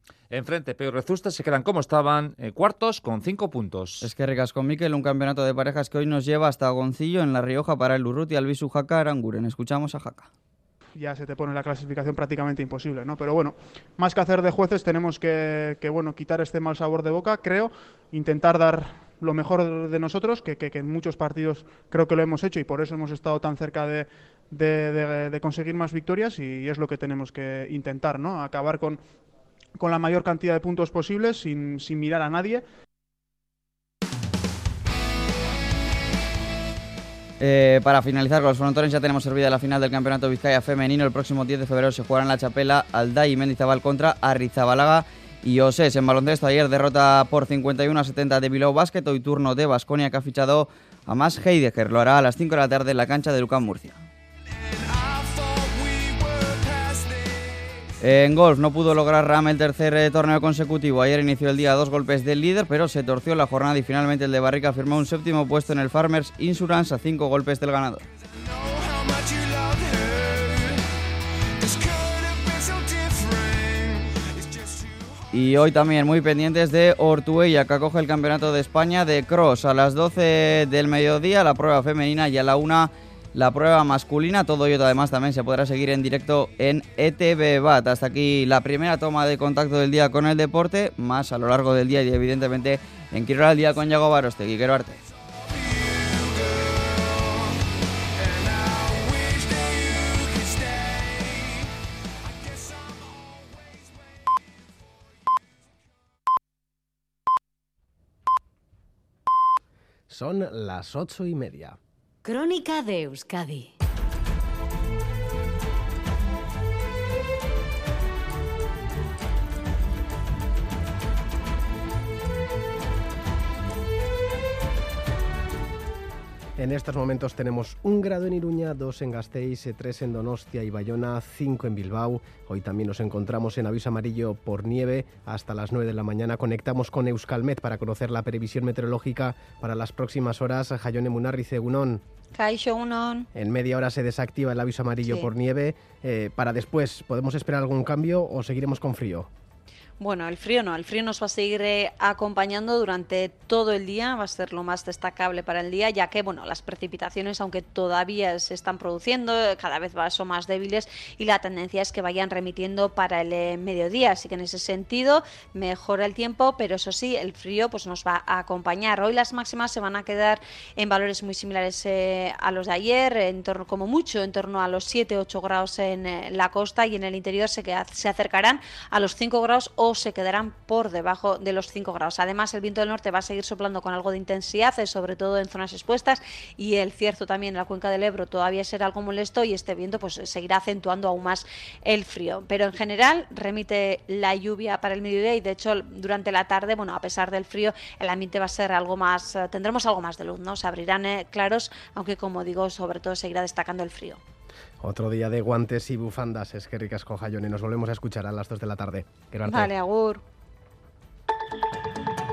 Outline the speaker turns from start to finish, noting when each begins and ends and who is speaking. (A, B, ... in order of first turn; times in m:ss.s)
0:00.3-0:04.1 A
0:04.0-0:10.3 B
0:11.0-0:29.0 C
0:29.8-0:32.6 C
0:37.4-0:54.0 B
0:58.0-1:08.0 B
1:15.3-1:35.0 B
1:50.1-1:51.8 D
2:06.6-2:22.0 D
2:22.3-2:23.3 E
2:23.3-2:29.3 D
2:30.0-3:24.2 E
3:24.8-3:29.7 D
3:29.4-3:30.2 E